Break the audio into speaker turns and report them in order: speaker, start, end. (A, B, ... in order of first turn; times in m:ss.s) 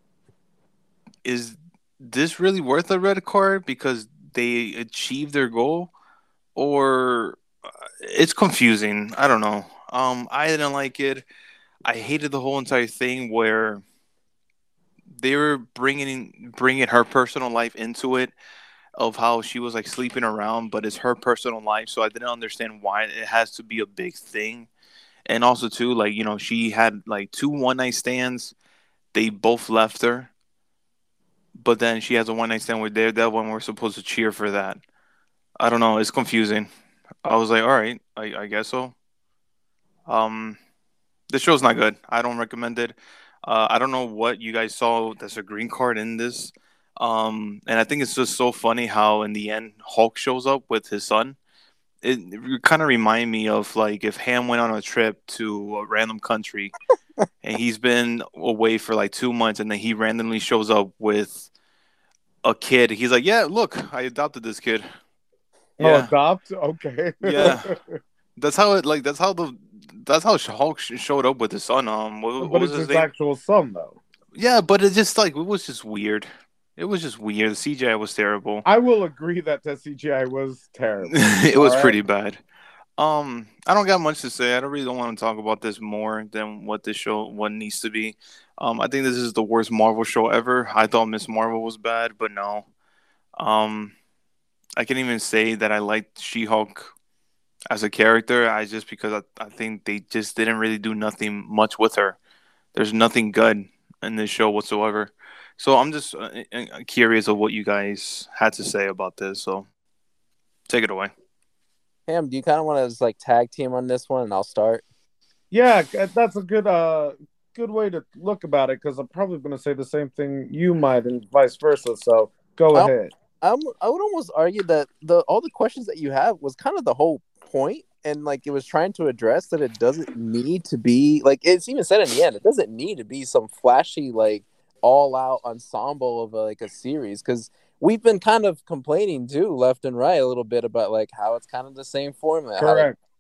0:01.2-0:05.9 A
0:06.6-0:07.4 A
0:08.0-0:11.2 A
0:11.8-0:13.8 A
0:15.2-0:18.3 A
0:19.0-0:24.7 A
0:25.3-0:28.6 A
0:29.1-0:30.3 A
0:31.6-0:34.8 A
0:35.6-0:36.7 A
0:37.2-0:39.0 A
0:40.1-0:40.6 A
0:41.3-0:51.4 A
0:52.0-0:56.7 A
0:57.4-1:01.5 A
1:02.4-1:04.9 A
1:05.8-1:07.7 B
1:05.8-1:06.1 A
1:07.2-1:07.7 A
1:08.4-1:13.1 A
1:12.4-1:14.0 B
1:14.4-1:18.6 A
1:18.6-1:22.0 B
1:21.1-1:22.4 A
1:23.0-1:32.7 A
1:33.4-1:34.0 A
1:34.8-1:36.9 A
1:37.7-1:42.2 A
1:42.8-1:49.7 A
1:50.7-1:51.1 A
1:52.1-1:54.8 C
1:55.5-2:03.1 B
2:02.7-2:22.9 C
2:22.6-2:23.0 B